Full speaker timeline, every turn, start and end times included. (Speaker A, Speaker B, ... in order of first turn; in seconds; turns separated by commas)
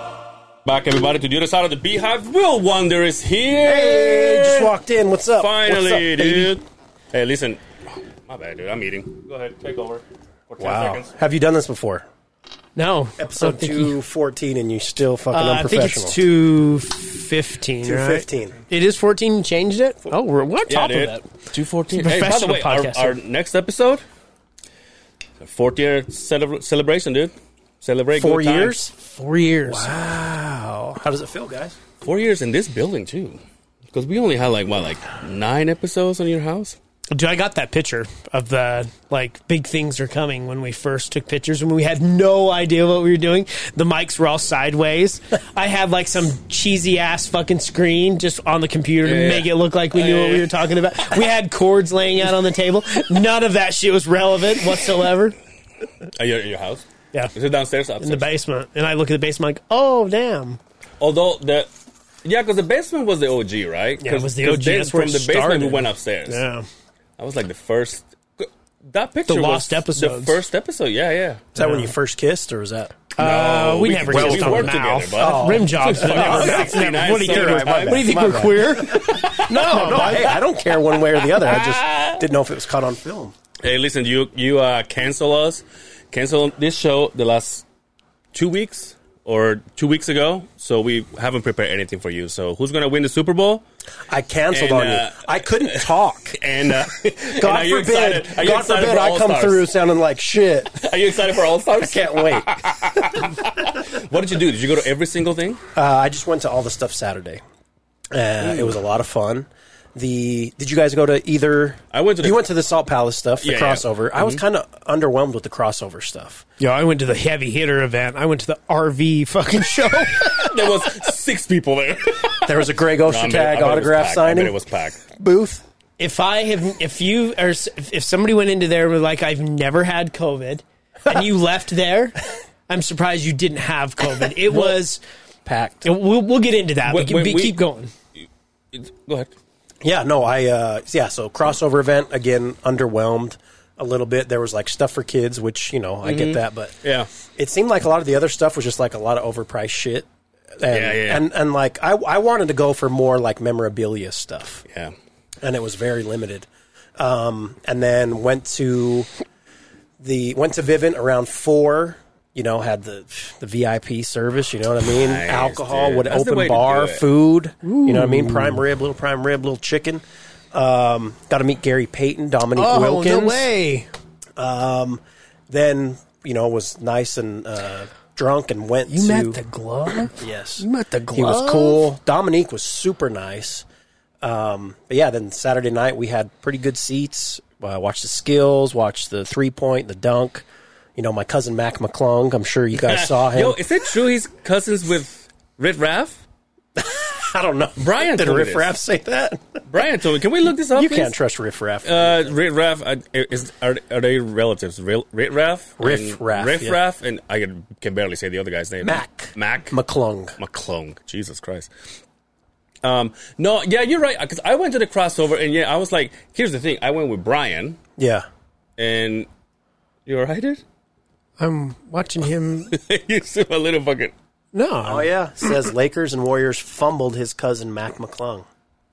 Speaker A: 0.7-4.7, Speaker B: 3.6-6.6, Speaker A: 5.4-11.1, Speaker B: 10.6-12.1, Speaker C: 12.8-13.9, Speaker B: 13.2-16.2, Speaker C: 15.3-21.3, Speaker B: 17.8-18.6, Speaker A: 20.7-24.0, Speaker C: 21.9-23.1, Speaker A: 25.4-28.8, Speaker B: 28.2-28.9, Speaker C: 28.8-29.9, Speaker B: 29.6-31.8, Speaker A: 32.0-33.4, Speaker A: 33.9-36.8, Speaker C: 37.1-55.4, Speaker A: 49.0-50.5, Speaker A: 56.1-58.3, Speaker C: 58.0-60.6, Speaker A: 61.0-61.7, Speaker A: 62.2-66.4, Speaker C: 64.0-66.7, Speaker A: 67.2-71.5, Speaker C: 69.3-70.4, Speaker B: 71.5-73.0, Speaker C: 71.6-71.9, Speaker C: 73.2-80.4, Speaker A: 73.2-78.4, Speaker B: 74.0-83.3, Speaker A: 79.0-79.5, Speaker A: 81.2-82.2, Speaker A: 83.6-87.6, Speaker A: 88.3-93.6, Speaker B: 94.1-96.4, Speaker A: 94.5-99.7, Speaker B: 97.2-100.8, Speaker A: 100.8-105.6, Speaker B: 101.8-103.1, Speaker B: 105.8-107.4, Speaker B: 108.1-116.5, Speaker A: 108.4-108.8, Speaker A: 111.9-112.4, Speaker A: 113.4-114.4, Speaker C: 116.6-120.7, Speaker A: 120.2-125.0, Speaker B: 122.4-124.6, Speaker B: 125.1-125.6, Speaker C: 126.0-135.0, Speaker B: 134.5-134.8, Speaker B: 135.4-135.9, Speaker C: 135.8-137.9, Speaker A: 136.8-137.6, Speaker A: 138.2-139.3, Speaker B: 139.8-154.7, Speaker A: 146.0-147.1, Speaker A: 150.7-151.3, Speaker A: 154.7-154.9, Speaker B: 155.4-159.1, Speaker B: 160.0-173.5, Speaker A: 164.9-167.1, Speaker C: 167.6-168.6, Speaker C: 172.6-173.9, Speaker B: 174.4-179.4, Speaker C: 178.9-181.8, Speaker B: 180.1-183.7, Speaker B: 184.2-190.4, Speaker B: 191.0-193.6, Speaker A: 192.8-196.2, Speaker B: 196.8-199.6, Speaker A: 197.8-198.7, Speaker A: 199.7-201.1, Speaker B: 200.7-202.3, Speaker A: 201.8-209.8, Speaker B: 205.8-206.8, Speaker B: 208.8-210.4, Speaker A: 210.4-211.7, Speaker A: 212.8-217.8, Speaker B: 218.0-218.3, Speaker A: 218.8-219.3, Speaker A: 220.1-220.6, Speaker C: 221.4-222.7, Speaker A: 222.7-224.1, Speaker C: 224.5-225.5, Speaker B: 224.8-228.5